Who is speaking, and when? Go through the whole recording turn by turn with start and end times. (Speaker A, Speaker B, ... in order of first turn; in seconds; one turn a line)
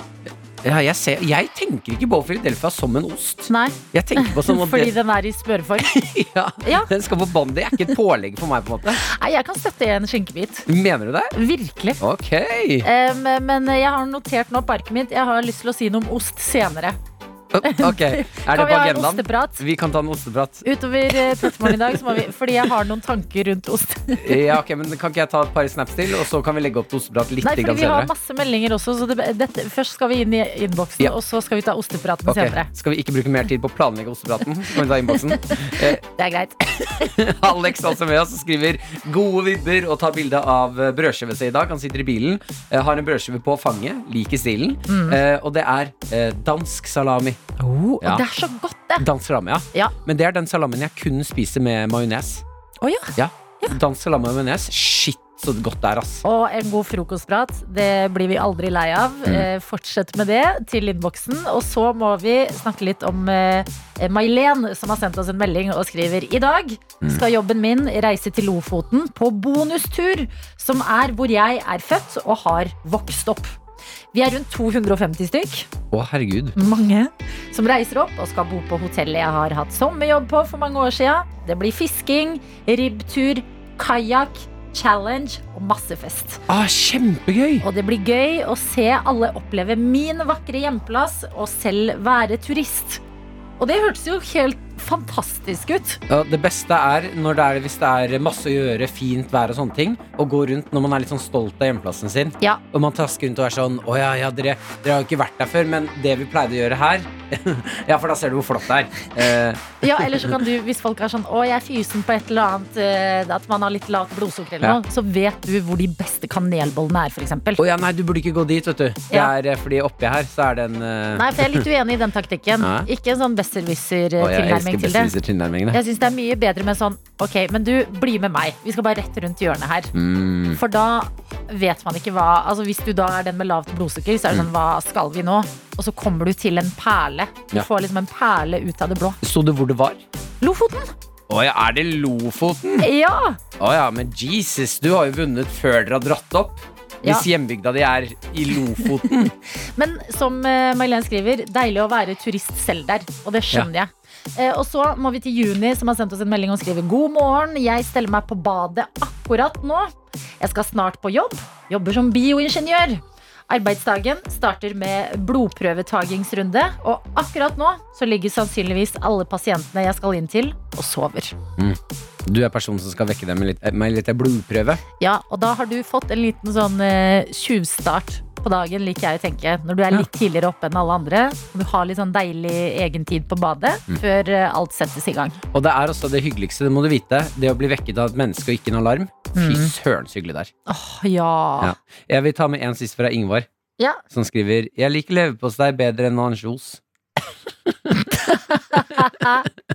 Speaker A: 0.6-5.0
Speaker B: 3.5-6.0
Speaker A: 5.8-9.0
Speaker B: 6.6-6.9
Speaker B: 9.0-10.7
Speaker A: 10.7-11.3
Speaker B: 11.3-12.0
Speaker A: 12.0-12.9
Speaker B: 12.8-17.0
Speaker A: 17.5-22.2
Speaker B: 17.6-19.6
Speaker B: 20.6-24.3
Speaker A: 24.2-28.1
Speaker B: 27.4-32.7
Speaker A: 32.3-36.0
Speaker B: 35.4-37.3
Speaker A: 37.0-47.4
Speaker B: 44.9-45.2
Speaker B: 47.6-49.1
Speaker A: 49.0-52.4
Speaker B: 52.8-53.8
Speaker A: 53.2-56.2
Speaker B: 56.2-73.6
Speaker B: 74.1-75.7
Speaker A: 75.9-76.6
Speaker B: 76.6-86.4
Speaker A: 86.5-87.7
Speaker B: 87.6-93.0
Speaker B: 93.6-96.0
Speaker A: 96.1-110.3
Speaker B: 109.8-117.6
Speaker A: 117.6-121.7
Speaker B: 121.2-125.1
Speaker A: 122.6-122.9
Speaker A: 124.2-125.8
Speaker B: 125.7-129.9
Speaker A: 129.9-130.6
Speaker B: 130.5-139.2
Speaker A: 139.2-140.0
Speaker B: 140.4-140.9
Speaker A: 141.3-142.9
Speaker B: 142.8-143.4
Speaker A: 143.6-149.3
Speaker B: 149.8-171.3
Speaker A: 171.6-174.8
Speaker B: 175.0-185.4
Speaker A: 185.5-190.5
Speaker B: 189.3-189.7
Speaker B: 190.7-191.8
Speaker A: 191.6-193.5
Speaker A: 194.1-196.8
Speaker A: 197.9-198.1
Speaker B: 198.0-199.5